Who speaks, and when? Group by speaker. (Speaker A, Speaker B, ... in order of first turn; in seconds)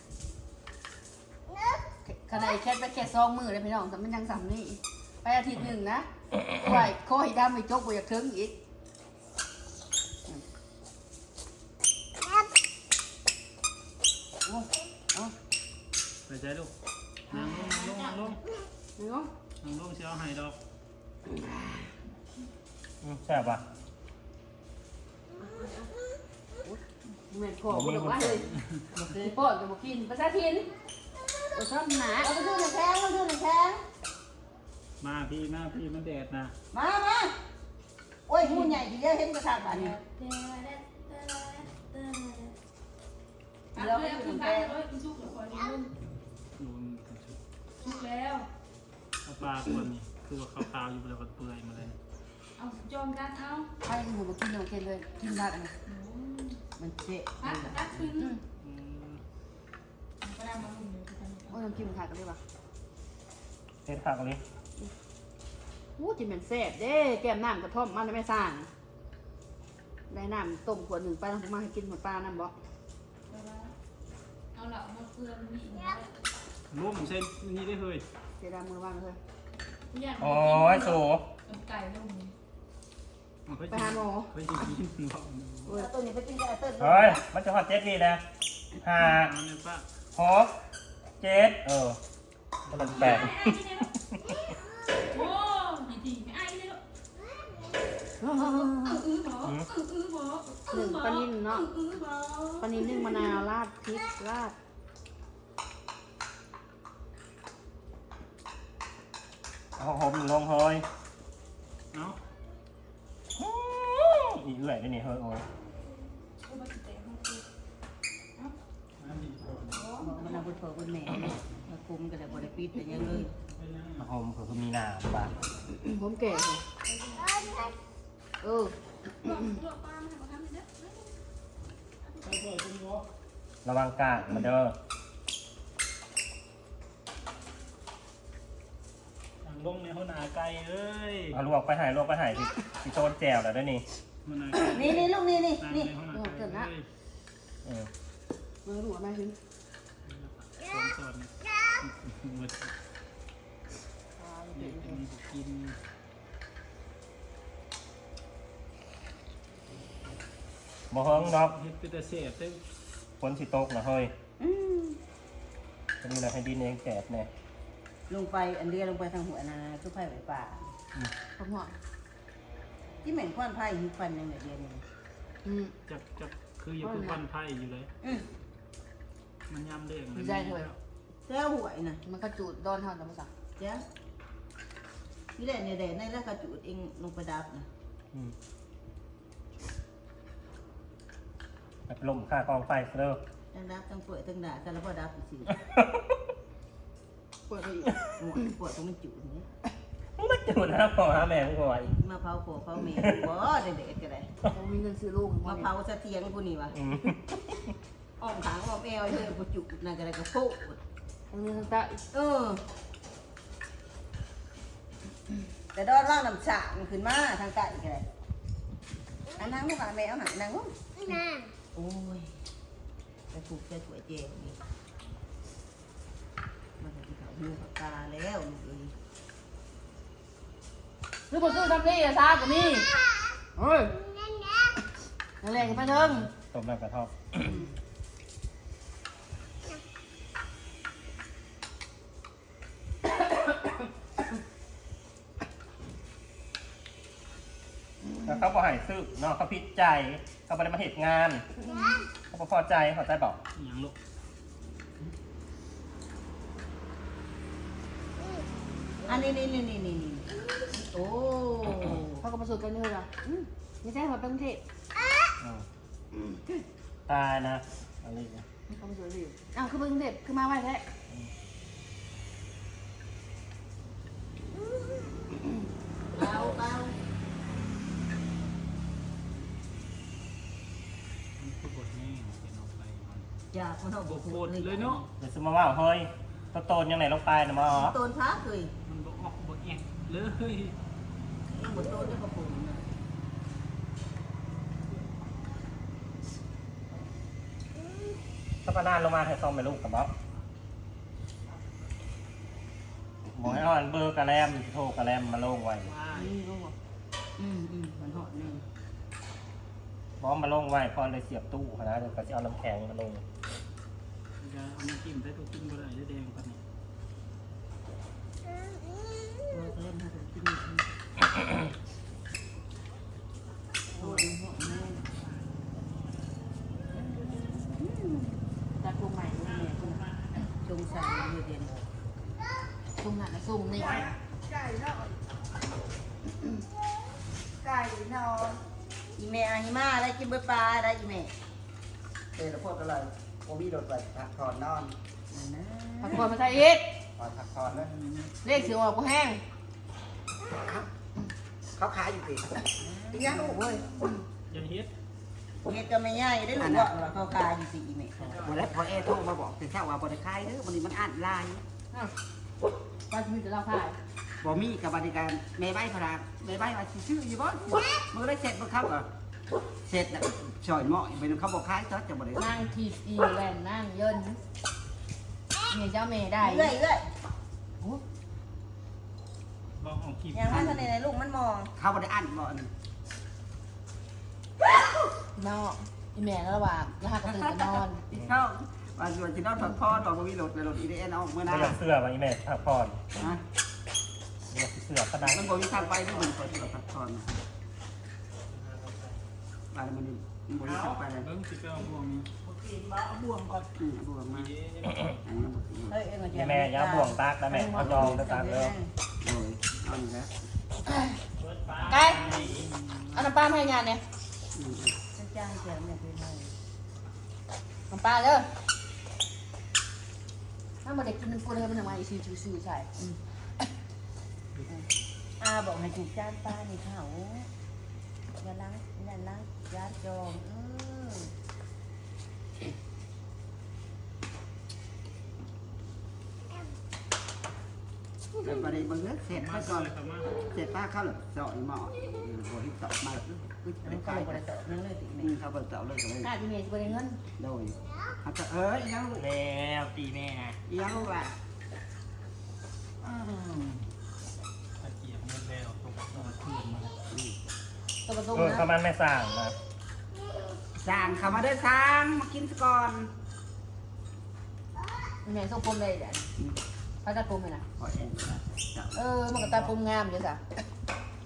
Speaker A: 2.0-8.6, 14.4-15.3, 19.0-19.3, 26.6-30.7, 31.5-32.3, 38.4-38.8, 53.8-55.7, 61.5-62.4, 66.0-68.7, 70.1-72.5, 78.4-79.2, 83.7-84.3, 98.2-98.9, 100.7-101.7, 102.6-104.6, 125.7-126.6, 128.4-129.4, 146.1-146.7, 148.7-149.4, 154.2-155.0, 171.4-171.8, 175.4-175.7, 176.8-177.2, 180.1-180.7, 182.1-183.3, 197.5-197.9, 204.4-205.7, 211.3-212.0, 231.3-233.0, 233.6-234.0, 235.4-236.3, 262.2-264.6, 268.7-270.9, 328.8-330.1, 333.0-334.1, 346.0-346.8, 348.4-349.4, 353.1-353.8, 363.1-364.0, 372.3-374.4, 375.7-376.7, 385.4-388.0, 407.6-408.2, 410.8-411.2, 411.9-412.2, 413.1-414.0, 417.9-418.5, 420.8-422.9, 446.2-447.2, 458.1-458.7, 465.2-466.3, 467.0-467.6, 468.9-470.4
Speaker B: 16.2-16.7, 17.3-18.4, 19.6-20.6, 27.8-28.9, 35.0-36.5, 46.6-47.4, 49.2-52.0, 58.6-59.2, 76.7-78.0, 83.5-85.8, 89.0-89.9, 92.7-93.4, 111.9-112.2, 119.0-119.9, 123.5-124.1, 132.2-133.1, 139.4-141.4, 144.2-146.9, 150.1-152.7, 154.5-155.8, 161.1-162.6, 175.9-177.9, 179.5-180.8, 253.6-253.9, 281.4-283.3, 284.0-285.1, 288.9-290.8, 305.8-306.3, 314.4-316.6, 347.7-348.3, 354.5-354.9, 358.4-359.1, 379.8-380.9, 395.4-396.8, 398.5-399.2, 400.6-403.7, 404.3-405.2, 411.4-413.3, 439.3-440.4, 453.0-453.9, 454.8-456.9, 469.4-469.7
Speaker C: 17.4-18.1, 40.0-42.5, 43.8-45.9, 47.8-48.5, 52.6-53.7, 55.9-56.6, 57.4-58.4, 60.2-61.6, 73.3-73.7, 74.5-76.1, 79.9-82.3, 93.2-93.9, 95.1-96.8, 98.6-103.3, 116.4-117.4, 119.7-120.3, 126.8-127.8, 129.2-131.1
Speaker D: 23.0-23.6, 27.7-28.3, 63.9-64.4, 80.2-81.2, 86.8-88.2, 88.8-89.3, 90.2-90.5, 91.2-92.0, 92.7-93.4, 99.4-99.7, 109.8-110.8, 113.4-115.4, 124.0-125.3, 133.7-134.7, 141.3-143.8, 160.9-161.6, 163.2-164.1, 166.0-167.3, 191.9-193.2, 195.5-196.2, 200.2-202.0, 206.7-207.2, 235.6-237.6, 248.2-251.5, 252.3-253.4, 267.1-268.4, 285.2-287.9, 298.6-300.1, 303.3-305.9, 310.2-313.2, 391.4-393.0, 394.5-395.5, 406.3-408.8, 449.1-450.6, 458.3-459.6
Speaker E: 32.2-33.8, 36.7-37.4, 38.3-40.0, 43.8-44.8, 56.8-58.1, 85.7-87.2, 120.0-123.3, 144.6-145.9, 164.4-165.0, 168.1-170.7, 173.0-174.8, 178.0-178.3, 181.2-182.0, 183.6-183.8, 185.4-187.7, 193.5-195.5, 198.2-199.5, 202.0-204.3, 205.4-206.8, 208.2-210.8, 212.1-212.6, 215.7-218.1, 219.4-221.2, 221.7-222.3, 223.3-224.6, 226.8-228.9, 259.1-262.2, 276.1-277.0, 283.5-285.1, 287.7-288.7, 291.5-292.8, 306.2-306.7, 307.4-308.6, 319.5-320.9, 323.9-325.0, 326.9-328.4, 330.6-331.7, 339.2-341.3, 345.3-346.3, 352.8-353.6, 355.7-358.4, 376.4-377.1, 380.3-381.7, 405.8-408.9, 414.9-416.5, 425.4-427.5, 428.4-431.3, 443.8-445.3
Speaker F: 333.8-335.2, 337.6-338.6, 342.3-344.9, 347.2-347.9, 350.6-350.9, 351.8-352.7, 353.2-353.6, 356.6-356.9, 358.2-361.6, 364.4-369.1, 369.9-372.6, 381.8-382.7, 388.1-391.8, 395.2-397.4, 399.7-401.3, 403.8-404.5, 405.2-406.0, 407.7-408.2, 409.2-410.3, 414.6-414.9, 438.4-444.4, 445.2-446.3, 447.4-449.2, 450.7-451.3, 460.8-463.1, 467.8-469.0